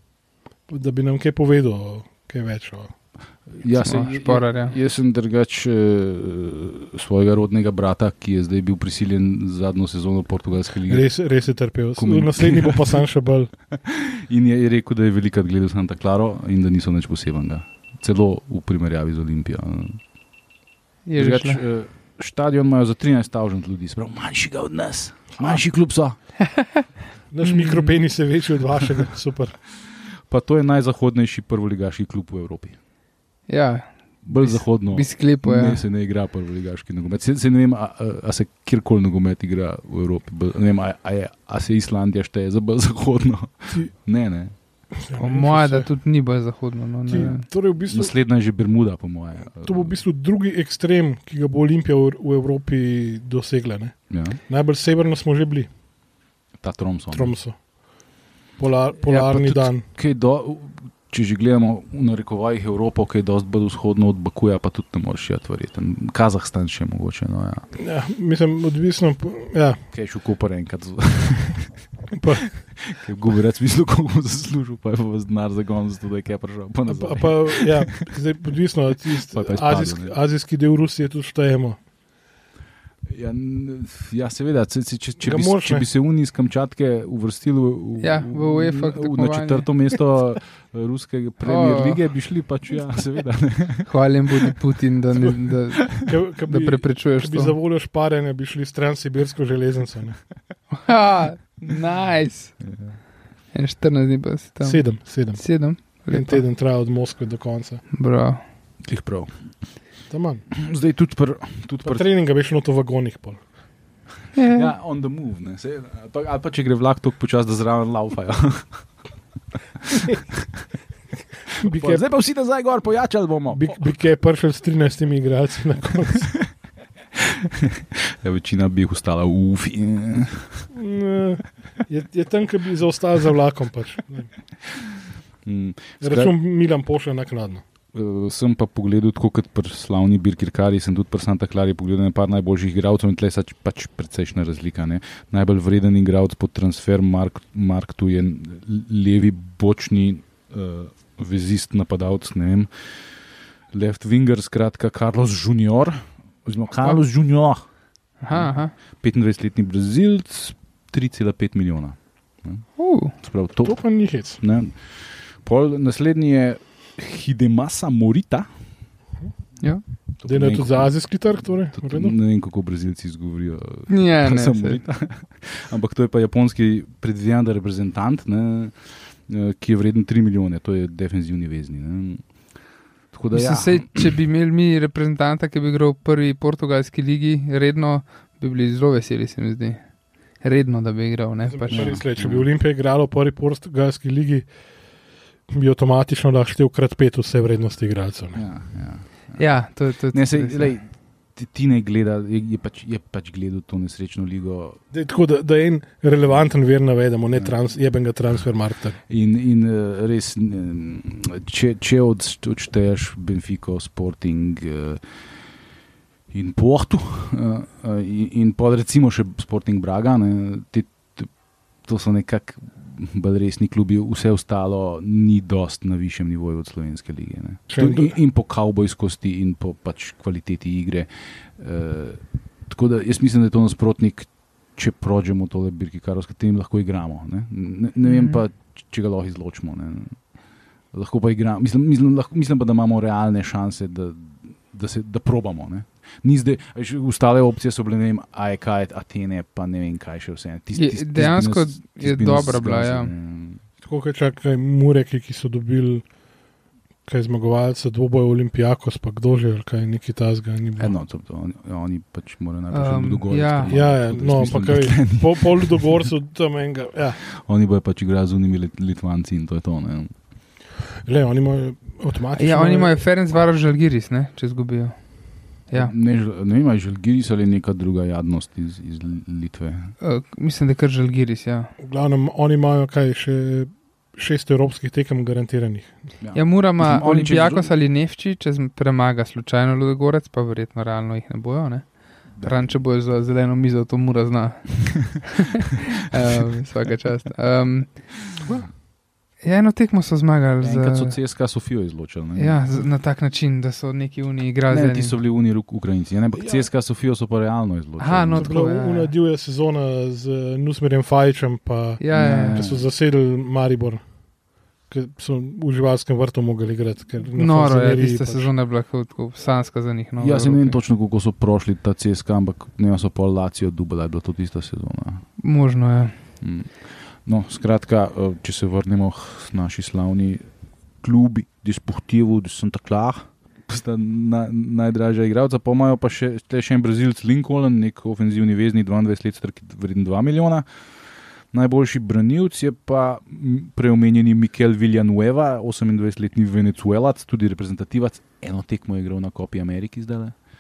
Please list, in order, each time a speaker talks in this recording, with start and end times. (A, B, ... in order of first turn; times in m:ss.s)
0:00.7-0:02.9 A
0:03.6-0:11.1 B
0:03.8-0:04.8 C
0:10.9-0:13.5 A
0:12.0-0:13.0 B
0:13.7-0:20.0 B
0:21.1-0:21.6 C
0:21.2-0:26.2 B
0:26.4-0:26.9 C
0:27.3-0:29.6 A
0:27.4-0:28.0 C
0:30.3-0:32.8 B
0:33.5-0:35.8 C
0:34.2-0:44.5 B
0:45.0-0:45.9 A
0:45.2-0:47.4 C
0:47.1-0:48.1 A
0:47.9-0:50.0 B
0:49.6-0:54.0 A
0:54.1-0:54.4 B
0:54.5-0:55.7 A
0:56.6-0:57.4 B
0:57.1-0:57.6 A
0:58.6-0:59.8 A
0:59.0-1:07.6 B
1:07.8-1:09.8 A
1:09.9-1:11.7 B
1:12.1-1:12.5 A
1:12.7-1:18.1 B
1:16.9-1:21.8 A
1:19.1-1:20.1 B
1:23.1-1:34.6 B
1:25.2-1:25.9 A
1:28.0-1:29.7 C
1:31.4-1:32.0 C
1:33.9-1:37.6 C
1:36.0-1:40.2 A
1:40.8-1:42.7 C
1:42.7-1:43.0 B
1:43.5-1:46.4 C
1:44.6-1:47.8 A
1:47.9-1:48.4 C
1:48.8-1:49.3 B
1:50.1-1:50.5 A
1:50.5-1:52.1 B
1:51.8-1:53.4 A
1:54.4-1:54.7 C
1:54.5-1:58.8 B
1:59.9-2:00.6 B
2:01.6-2:02.1 A
2:01.6-2:03.8 B
2:03.5-2:06.3 A
2:07.1-2:10.6 B
2:10.7-2:14.3 A
2:15.4-2:16.3 B
2:16.0-2:17.6 A
2:17.9-2:32.7 B
2:33.7-2:37.6 B
2:38.2-2:38.7 C
2:38.3-2:42.6 B
2:42.8-2:43.1 C
2:43.2-2:43.8 B
2:43.6-2:44.4 A
2:44.3-2:48.5 B
2:50.2-2:50.9 B
2:50.2-2:52.1 A
2:51.7-3:02.2 B
2:53.9-2:54.8 C
3:03.1-3:04.2 B
3:03.3-3:09.8 C
3:10.4-3:12.0 C
3:11.5-3:14.5 A
3:11.7-3:12.5 B
3:15.5-3:18.4 A
3:18.3-3:19.5 B
3:19.4-3:20.7 C
3:20.1-3:24.8 B
3:24.9-3:29.0 A
3:29.1-3:35.0 B
3:36.3-3:41.3 B
3:41.8-4:00.2 B
3:47.7-3:48.2 A
3:58.1-3:58.4 C
4:00.9-4:13.6 B
4:10.7-4:13.1 C
4:13.8-4:16.0 A
4:17.1-4:20.9 A
4:20.8-4:26.0 B
4:22.7-4:23.8 C
4:23.7-4:27.2 A
4:27.3-4:30.1 B
4:31.0-4:33.0 A
4:32.4-4:35.0 C
4:35.7-4:35.9 C
4:35.7-4:39.9 B
4:40.0-4:41.7 C
4:41.8-4:46.0 A
4:46.2-4:47.7 B
4:46.4-4:58.6 C
4:52.4-4:52.8 B
4:59.4-5:01.1 C
5:00.6-5:02.8 B
5:02.4-5:05.1 C
5:04.7-5:08.5 B
5:08.0-5:09.1 C
5:08.4-5:14.0 A
5:12.0-5:12.6 C
5:12.1-5:12.9 B
5:14.9-5:18.5 A
5:17.3-5:20.8 C
5:20.2-5:25.2 B
5:25.4-5:26.2 C
5:26.4-5:30.4 B
5:31.0-5:40.6 B
5:41.5-5:50.4 B